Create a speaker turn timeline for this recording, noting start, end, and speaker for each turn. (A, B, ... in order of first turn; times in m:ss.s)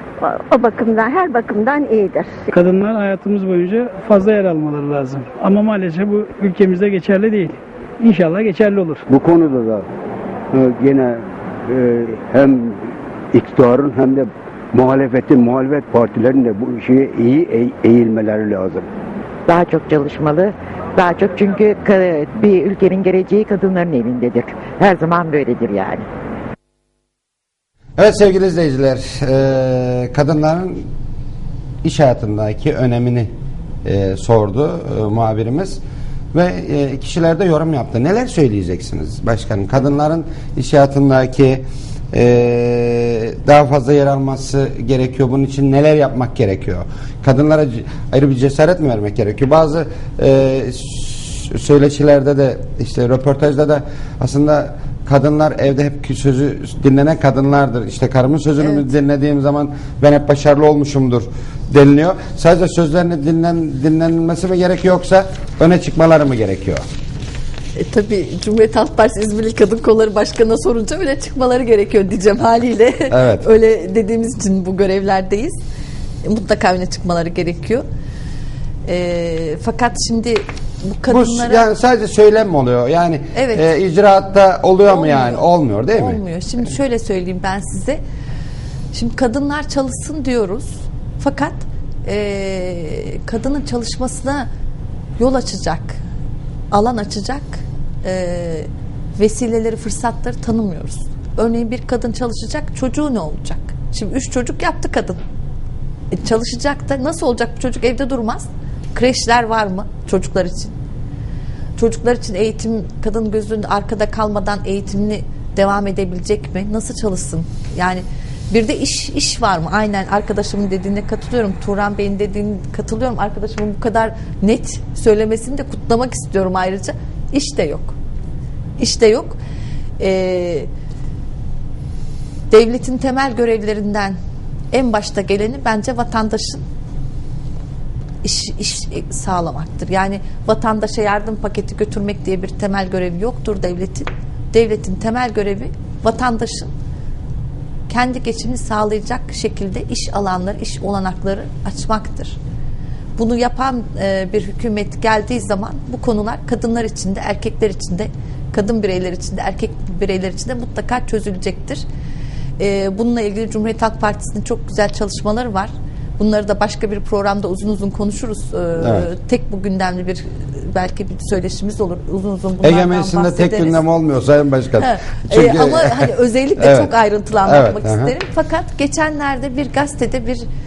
0:00.2-0:02.4 A
0:02.5-0:09.0 B
0:09.1-0:09.9 C
0:10.5-0:18.8 C
0:19.5-0:26.0 D
0:28.0-0:30.9 E
0:31.8-0:33.3 E
0:33.8-0:35.8 E
0:36.3-1:06.8 E
0:58.6-0:58.9 F
1:07.8-1:15.6 F
1:13.1-1:13.4 E
1:16.2-1:17.8 F
1:18.9-1:21.7 F
1:21.1-1:26.2 E
1:23.3-1:23.6 F
1:24.9-1:28.0 F
1:28.9-1:34.5 F
1:35.2-1:36.0 F
1:36.7-1:45.2 F
1:46.1-1:50.7 F
1:51.8-2:07.9 F
2:08.8-2:09.4 F
2:10.0-2:10.7 F
2:12.5-2:14.2 F
2:14.7-2:16.6 F
2:18.2-2:26.7 F
2:27.9-2:32.4 F
2:33.2-2:41.8 F
2:42.6-2:53.8 F
2:48.8-2:49.1 E
2:52.6-2:56.9 E
2:54.8-3:00.5 F
2:57.4-2:58.2 E